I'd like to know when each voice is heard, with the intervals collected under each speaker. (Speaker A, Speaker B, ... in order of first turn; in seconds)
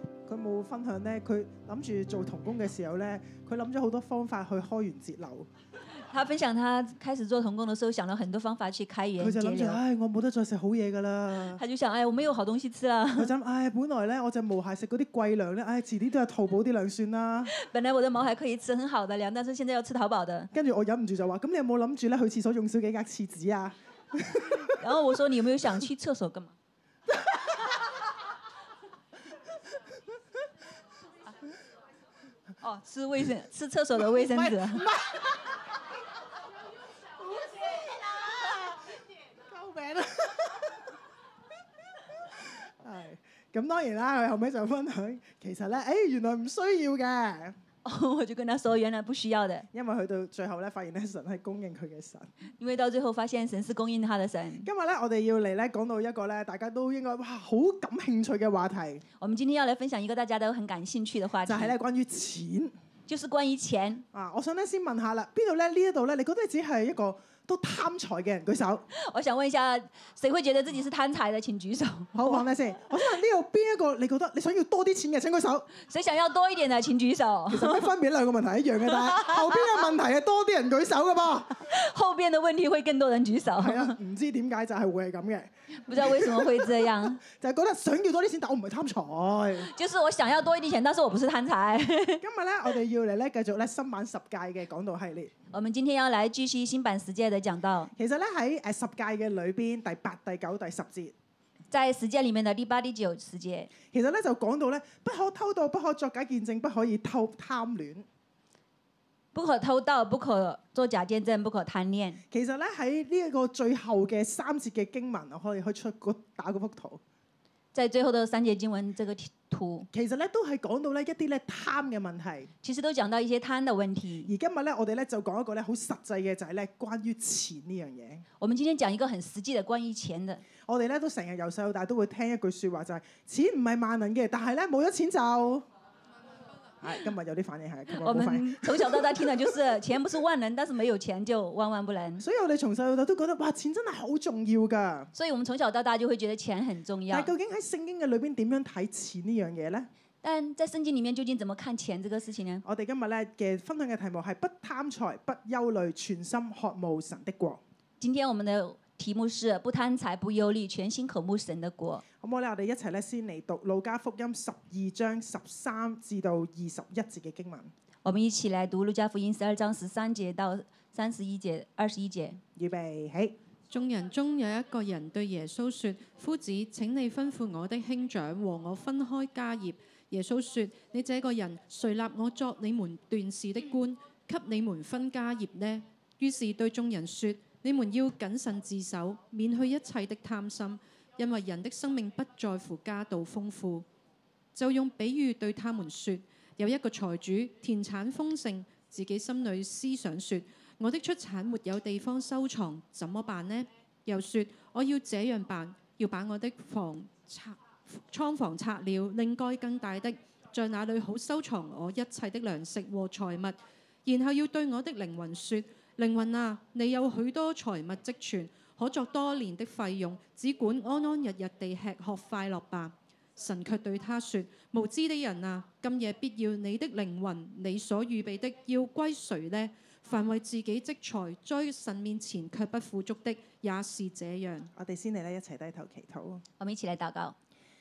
Speaker A: 0.3-5.5, 9.2-11.6, 13.1-17.5, 20.5-24.7, 34.0-35.5, 37.2-40.8, 42.8-47.5, 49.7-52.3, 54.6-59.0, 61.4-62.7, 64.1-68.9, 72.1-75.7, 77.5-81.6, 83.6-89.7, 92.2-95.3, 98.0-101.1, 103.9-108.1, 112.3-117.0, 119.9-122.5, 124.2-128.2, 130.7-135.7, 136.8-139.5, 142.2-145.1, 147.1-149.9, 152.6-157.6, 162.2-167.7, 172.6-173.3, 234.8-236.4
Speaker B: 6.1-9.8, 11.6-13.3, 17.5-20.5, 24.6-26.5, 32.6-34.9, 47.8-49.7, 52.6-54.7, 59.2-61.7, 63.1-64.0, 68.9-72.4, 75.8-77.9, 79.1-79.4, 81.6-84.0, 85.9-87.2, 89.6-92.2, 95.5-97.9, 101.7-103.7, 109.3-112.2, 117.7-119.9, 122.6-124.3, 128.4-130.4, 137.9-142.2, 145.1-147.3, 150.2-152.6, 158.0-162.0, 168.0-172.4, 236.6-237.3
Speaker C: 173.7-193.8, 194.5-234.7